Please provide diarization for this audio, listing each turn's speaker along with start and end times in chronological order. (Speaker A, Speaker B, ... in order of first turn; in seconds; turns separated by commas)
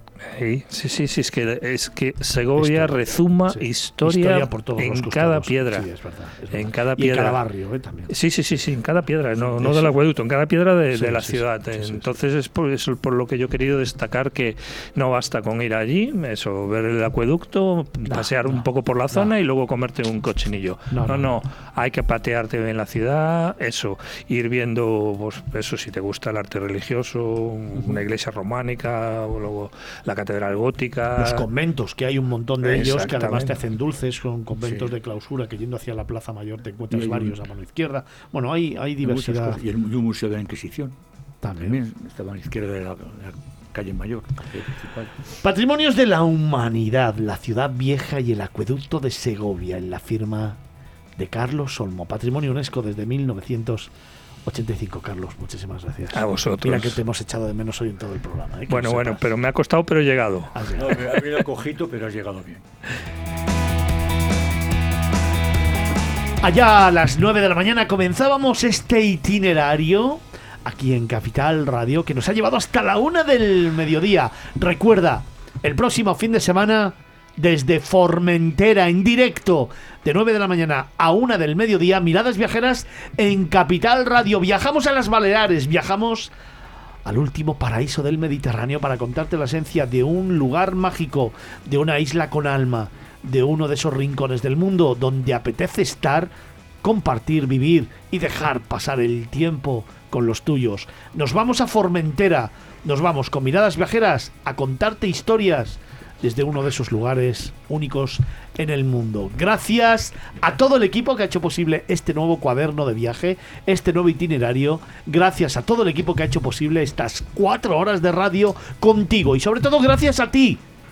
Speaker A: 0.2-5.9, Speaker B: 2.6-2.9, Speaker B: 3.5-8.1, Speaker A: 6.5-7.4, Speaker A: 8.1-31.4, Speaker B: 9.4-9.9, Speaker B: 10.9-12.2, Speaker B: 18.0-19.3, Speaker B: 20.9-21.3, Speaker B: 31.2-39.6, Speaker A: 32.6-33.6, Speaker C: 34.6-34.9, Speaker C: 36.9-37.4, Speaker C: 39.0-41.0, Speaker B: 41.4-41.8, Speaker C: 41.6-45.1, Speaker B: 45.4-50.6, Speaker B: 51.2-53.9, Speaker B: 54.4-59.3, Speaker A: 56.1-57.0, Speaker A: 58.7-60.6, Speaker B: 60.5-61.3, Speaker C: 60.8-62.6, Speaker B: 66.4-86.3, Speaker B: 87.0-96.3, Speaker B: 96.8-120.6